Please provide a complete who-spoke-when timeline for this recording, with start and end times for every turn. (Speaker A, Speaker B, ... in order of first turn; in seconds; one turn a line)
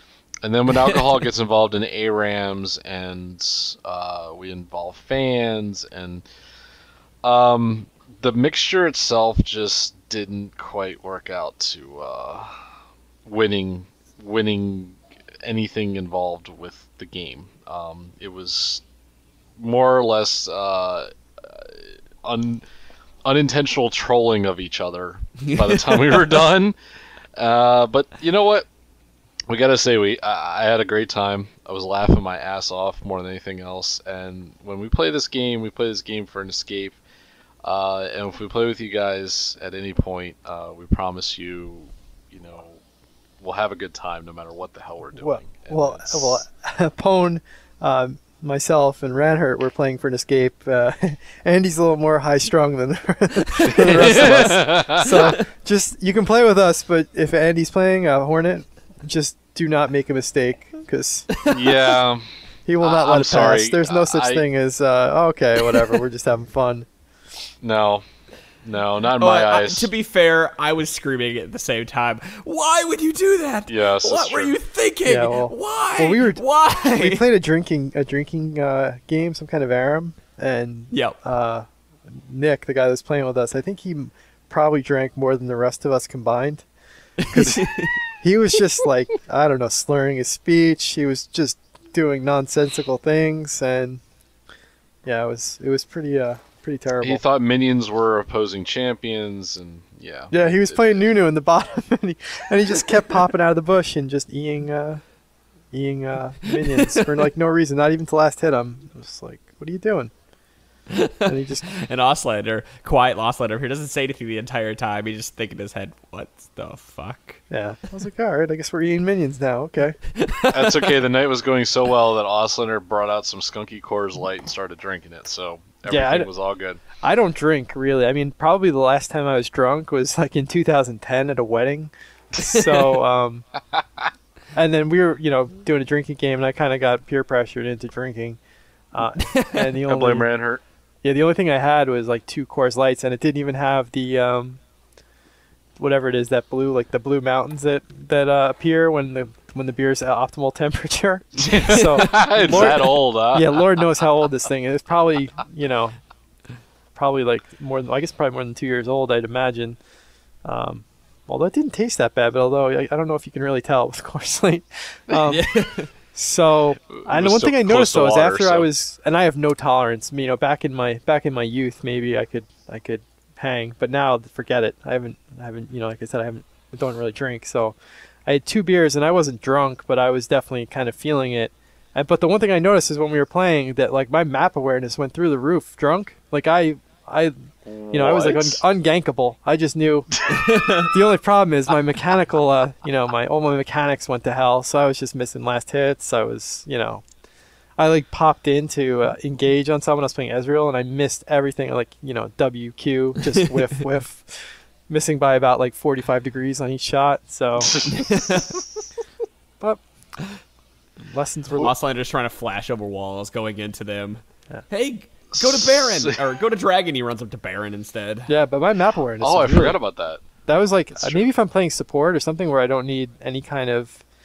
Speaker A: 0.4-6.2
Speaker A: 7.2-12.6
Speaker A: 13.3-18.8
Speaker A: 19.6-22.6
Speaker A: 23.2-26.8
Speaker B: 25.5-26.2
Speaker A: 27.4-28.7
Speaker A: 29.5-37.0
Speaker A: 37.6-42.8
Speaker A: 43.4-46.5
Speaker C: 45.2-61.3
Speaker B: 53.8-54.3
Speaker A: 53.9-55.1
Speaker B: 55.0-55.3
Speaker A: 61.5-62.3
Speaker C: 62.7-66.9
Speaker A: 62.8-64.4
Speaker A: 67.6-68.0
Speaker A: 68.6-69.9
Speaker B: 69.2-77.2
Speaker A: 73.7-74.5
Speaker C: 75.0-86.7
Speaker B: 80.9-81.2
Speaker B: 87.3-88.0
Speaker C: 87.3-94.0
Speaker C: 95.0-97.2
Speaker A: 97.0-101.0
Speaker C: 100.3-105.0
Speaker C: 105.7-110.1
Speaker B: 110.9-117.4
Speaker C: 111.3-111.7
Speaker C: 117.5-120.0
Speaker B: 120.2-120.9
Speaker A: 120.5-126.8
Speaker C: 125.9-126.3
Speaker C: 127.0-133.4
Speaker C: 134.6-138.4
Speaker C: 138.9-140.3
Speaker B: 139.3-139.6
Speaker A: 139.9-140.6
Speaker C: 141.0-144.6
Speaker C: 145.8-156.0
Speaker A: 151.4-153.7
Speaker C: 156.9-159.8
Speaker C: 160.4-190.2
Speaker B: 165.3-165.9
Speaker A: 166.9-168.7
Speaker A: 187.7-188.6
Speaker B: 190.3-190.9
Speaker C: 190.8-197.1
Speaker C: 197.8-207.7
Speaker A: 207.6-208.6
Speaker B: 207.9-208.6
Speaker C: 211.1-211.7
Speaker B: 211.6-218.3
Speaker A: 215.3-216.2
Speaker C: 218.3-219.8
Speaker A: 219.2-220.2
Speaker C: 220.5-224.0
Speaker A: 220.9-221.3